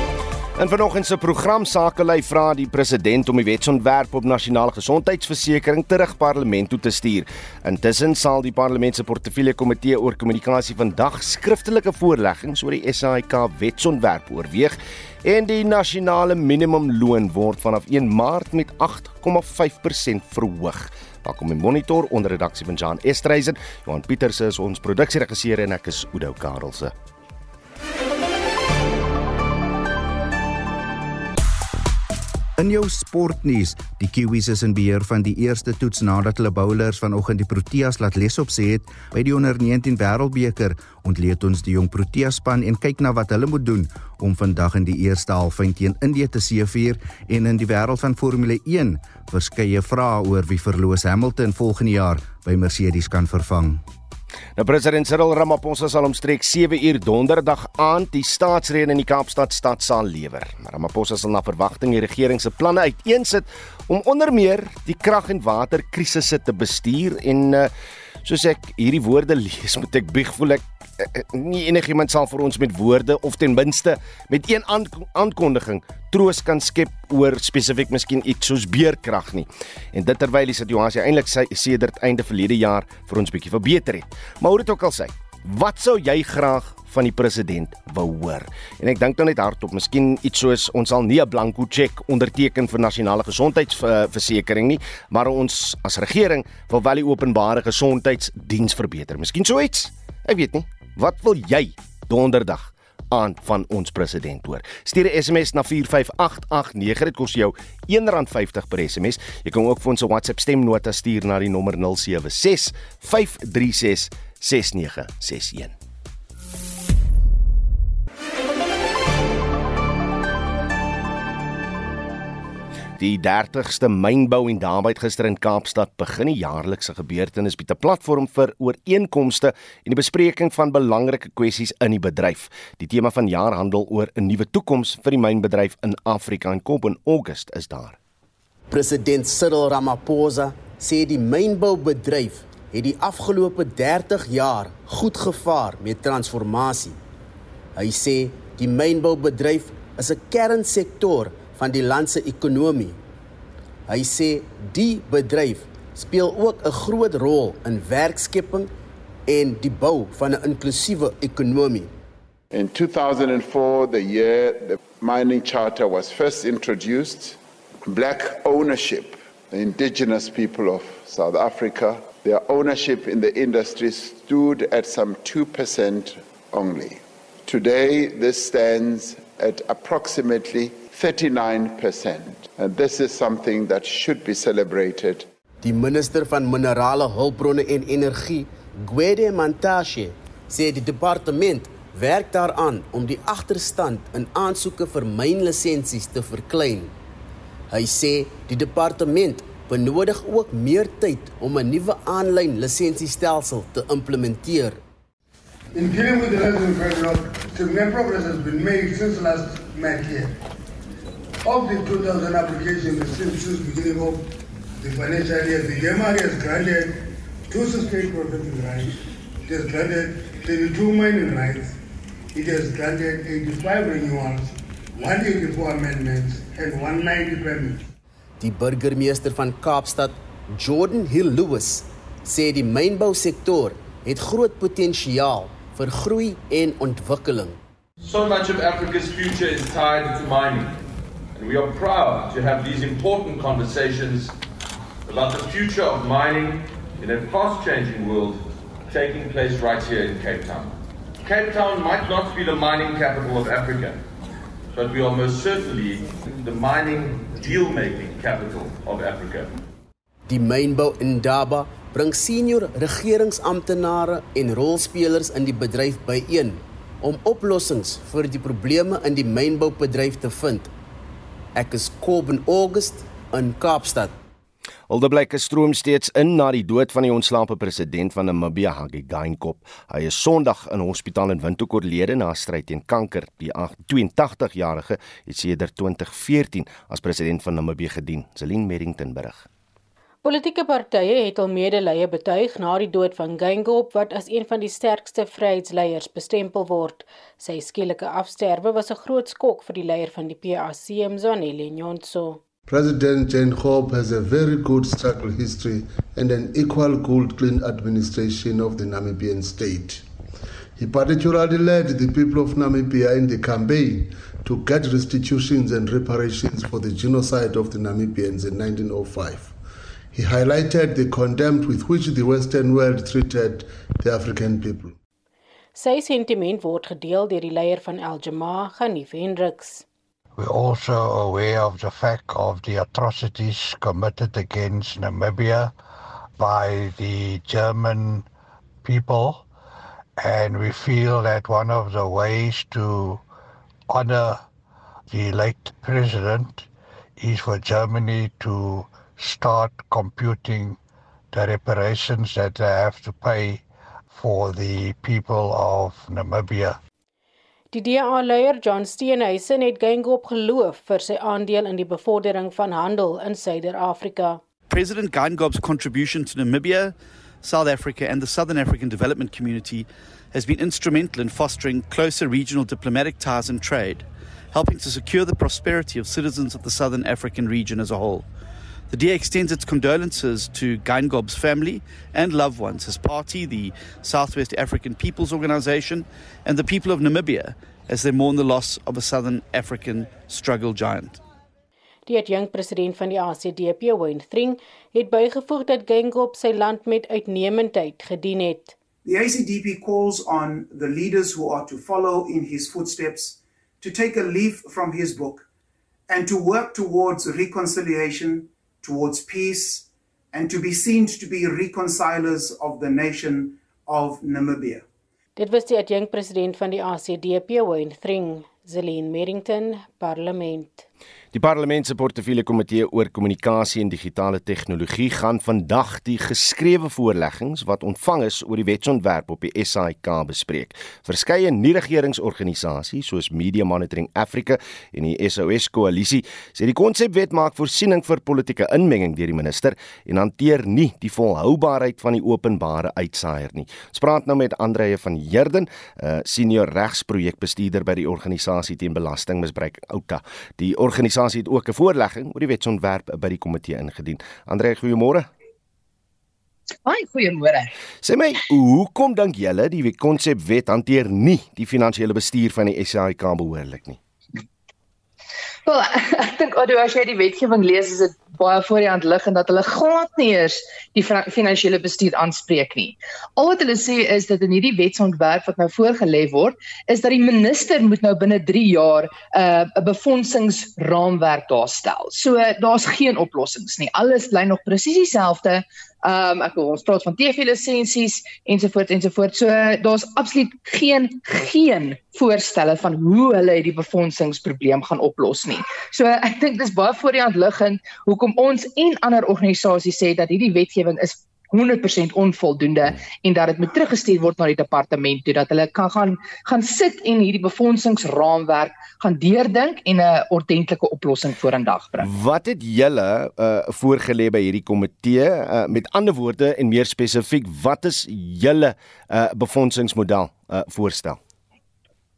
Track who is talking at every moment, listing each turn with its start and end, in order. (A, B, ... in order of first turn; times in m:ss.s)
0:00.6-0:26.9 A
0:32.6-0:53.8 B
0:54.6-1:07.7 A
1:08.2-1:55.8 A
2:03.0-2:18.0 A
2:18.7-2:27.0 C
2:27.8-2:33.0 C
2:33.9-2:38.7 C
2:39.3-2:41.9 C
2:42.5-3:05.3 D
3:05.6-3:16.9 C
3:17.7-3:24.8 C
3:25.8-3:30.3 E
3:31.4-3:34.2 E
3:34.8-3:41.8 E
3:42.3-3:47.8 E
3:48.4-3:57.6 C
3:58.0-4:00.8 F
4:01.4-4:04.4 F
4:05.0-4:14.0 F
4:14.7-4:19.5 F
4:20.3-4:30.7 C
4:31.6-4:34.2 C
4:34.9-4:49.4 A
4:50.2-5:02.4 G
5:02.7-5:10.0 H
5:10.8-5:19.6 H
5:20.1-5:24.9 H
5:25.8-5:29.8 G
5:30.4-5:35.7 I
5:36.4-5:38.3 I
5:38.8-5:39.5 I
5:40.2-5:43.2 I
5:43.9-5:44.4 I
5:45.1-5:50.8 I
5:51.3-5:56.8 I
5:57.7-6:04.4 G
6:04.7-6:18.3 J
6:18.9-6:31.2 J
6:32.1-6:38.8 G
6:39.0-6:45.5 K
6:46.1-6:54.9 K
6:55.4-7:00.8 G
7:01.3-7:35.3 A
7:36.9-7:37.7 L
7:38.0-7:44.0 A
7:45.7-8:31.9 L
8:32.0-8:41.2 A